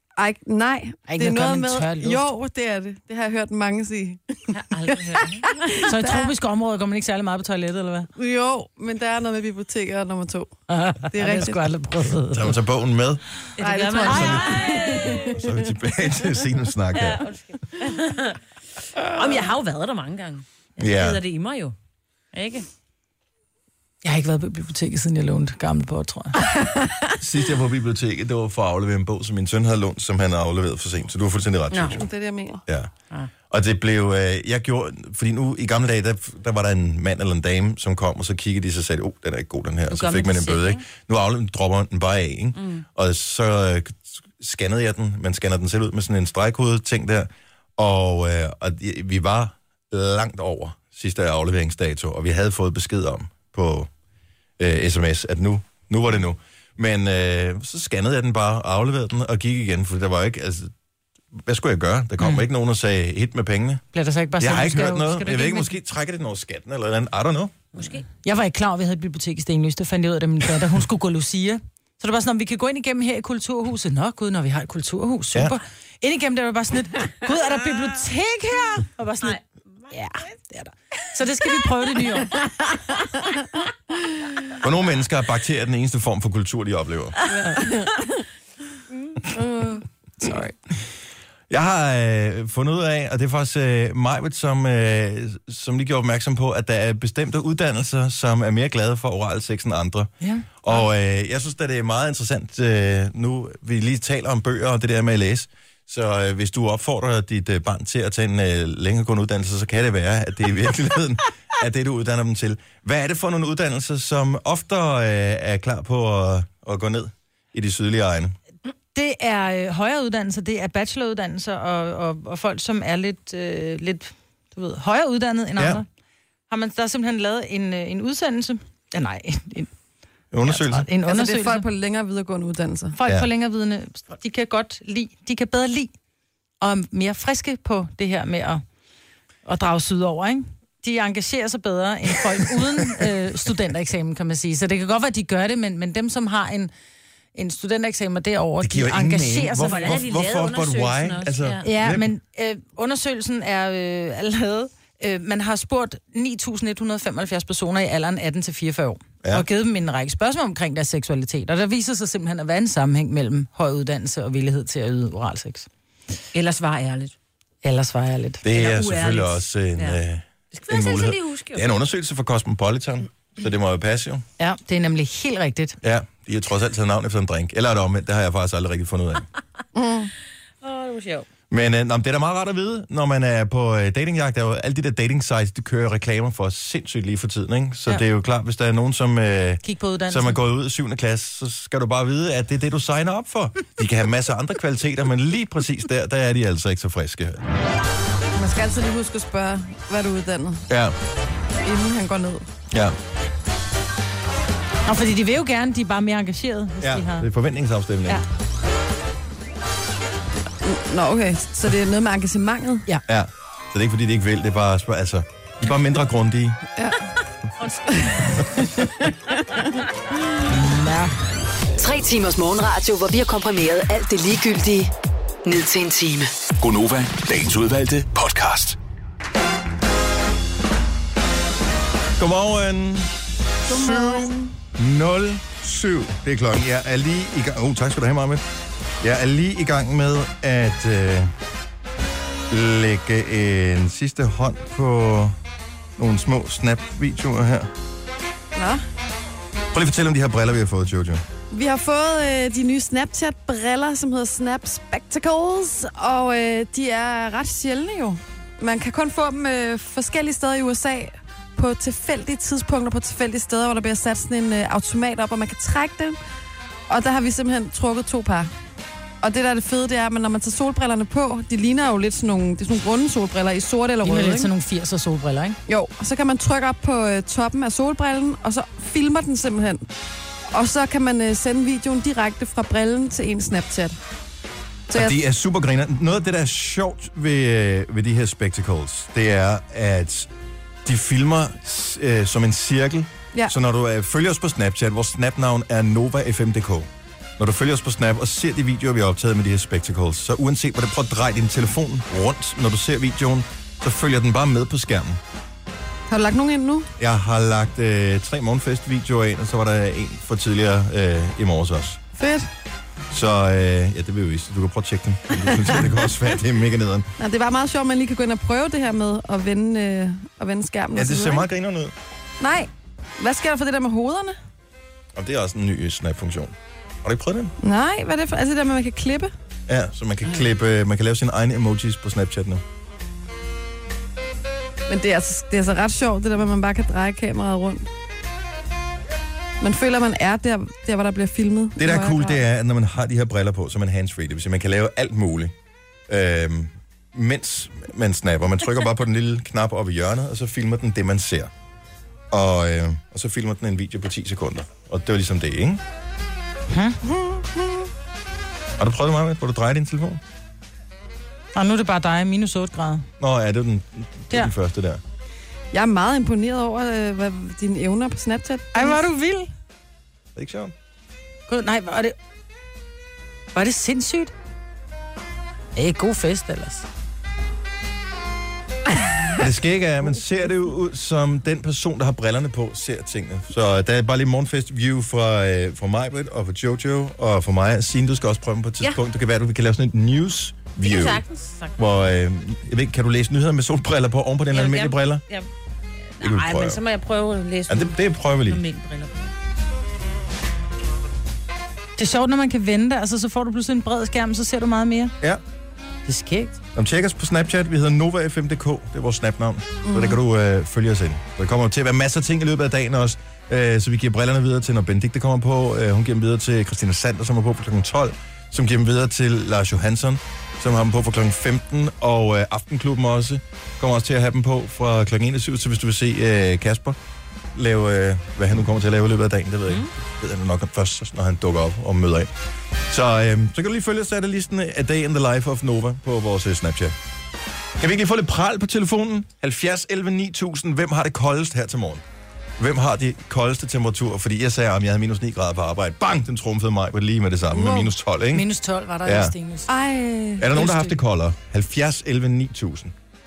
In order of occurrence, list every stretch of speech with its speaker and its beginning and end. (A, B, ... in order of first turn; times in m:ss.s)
0:00.2-0:06.3 A
0:01.1-0:02.2 B
0:04.5-0:05.6 C
0:05.8-0:08.1 B
0:08.2-0:10.5 A
0:10.7-0:12.6 B
0:11.1-0:11.7 A
0:12.3-0:13.2 D
0:13.6-0:15.3 C
0:13.6-0:15.6 A
0:14.0-0:17.3 D
0:16.9-0:18.4 C
0:19.0-0:21.8 C
0:20.8-0:21.2 D
0:22.3-0:22.7 C
0:24.0-0:26.5 B
0:27.2-0:32.1 D
0:31.7-0:32.0 C
0:31.9-0:32.6 A
0:32.7-0:32.9 D
0:33.5-0:53.9 D
0:39.9-0:40.8 C
0:42.6-0:42.8 C
0:54.6-1:00.7 D
1:01.3-1:03.8 D
1:02.2-1:02.4 B
1:03.9-1:05.7 B
1:04.4-1:07.6 D
1:07.7-1:08.1 C
1:08.2-1:19.4 B
1:19.2-1:19.9 C
1:19.9-1:22.4 B
1:24.6-1:27.2 D
1:27.4-1:28.2 A
1:29.3-1:30.5 A
1:31.5-1:58.4 D
1:40.2-1:40.8 B
1:58.9-2:05.9 B
2:05.6-2:05.8 D
2:06.5-2:09.7 B
2:10.3-2:10.9 D
2:10.5-2:11.7 B
2:11.0-2:13.0 A
2:13.0-2:15.9 B
2:16.6-2:18.6 B
2:19.4-2:26.7 B
2:27.4-2:30.0 B
2:28.6-2:32.1 D
2:29.6-2:31.7 C
2:31.6-2:45.7 B
2:46.3-2:47.2 C
2:47.6-2:48.4 B
2:48.4-2:54.2 D
2:48.5-2:50.0 C
2:50.5-2:51.7 C
2:54.4-2:55.8 B
2:55.8-2:59.3 D
2:59.8-3:00.1 A
3:00.6-3:01.3 C
3:01.5-3:17.4 D
3:09.6-3:10.4 B
3:18.4-3:20.6 A
3:20.7-3:21.0 D
3:21.6-3:22.5 A
3:22.7-3:23.0 D
3:24.9-3:27.3 B
3:26.8-3:28.2 D
3:30.6-3:32.9 A
3:33.1-3:36.6 D
3:36.8-3:37.0 A
3:37.6-3:38.1 C
3:37.9-3:38.3 A
3:40.5-3:41.1 B
3:41.8-3:44.9 E
3:45.4-3:46.3 E
3:46.6-3:48.8 F
3:52.2-3:53.1 D
3:53.7-3:54.5 A
3:53.7-3:58.4 D
3:59.0-4:01.3 D
4:02.5-4:05.4 D
4:06.0-4:07.7 D
4:08.6-4:08.8 A
4:09.7-4:11.2 D
4:11.5-4:26.2 A
4:26.9-4:28.5 A
4:29.2-4:34.5 A
4:34.0-4:35.6 B
4:35.7-4:39.9 A
4:40.5-4:44.0 A
4:44.9-4:45.2 A
4:44.9-4:50.3 D
4:50.8-5:05.2 D
5:06.1-5:06.9 A
5:07.0-5:12.0 D
5:12.2-5:12.5 A
5:13.1-5:17.1 D
5:17.2-5:21.5 A
5:21.0-5:21.9 D
5:22.4-5:24.4 A
5:25.2-5:27.6 D
5:27.6-5:29.3 A
5:29.7-5:32.6 D
5:34.9-5:37.9 A
5:39.6-5:42.4 A
5:41.8-5:45.5 D
5:46.1-5:51.5 D
5:52.3-5:55.8 D
5:56.7-5:57.0 B
5:57.0-5:57.9 A
5:58.8-6:00.2 D
6:01.6-6:03.1 B
6:03.2-6:05.0 D
6:05.7-6:09.0 A
6:08.8-6:09.5 B
6:10.4-6:10.7 D
6:11.5-6:12.2 B
6:13.5-6:14.3 B
6:15.8-6:16.9 B
6:19.4-6:31.2 D
6:30.8-6:31.8 C
6:31.8-6:35.2 D
6:34.5-6:35.5 C
6:36.2-6:39.3 C
6:36.2-6:36.8 D
6:37.7-6:38.6 D
6:42.0-6:45.1 B
6:46.1-6:46.6 B
6:46.8-7:07.0 D
6:49.9-6:50.2 A
7:07.5-7:12.3 D
7:12.9-7:17.0 D
7:17.8-7:22.0 D
7:22.6-7:28.5 D
7:27.5-7:27.9 A
7:28.3-7:29.8 B
7:29.0-7:29.3 D
7:29.7-7:30.5 A
7:30.4-7:32.9 D
7:30.4-7:31.0 B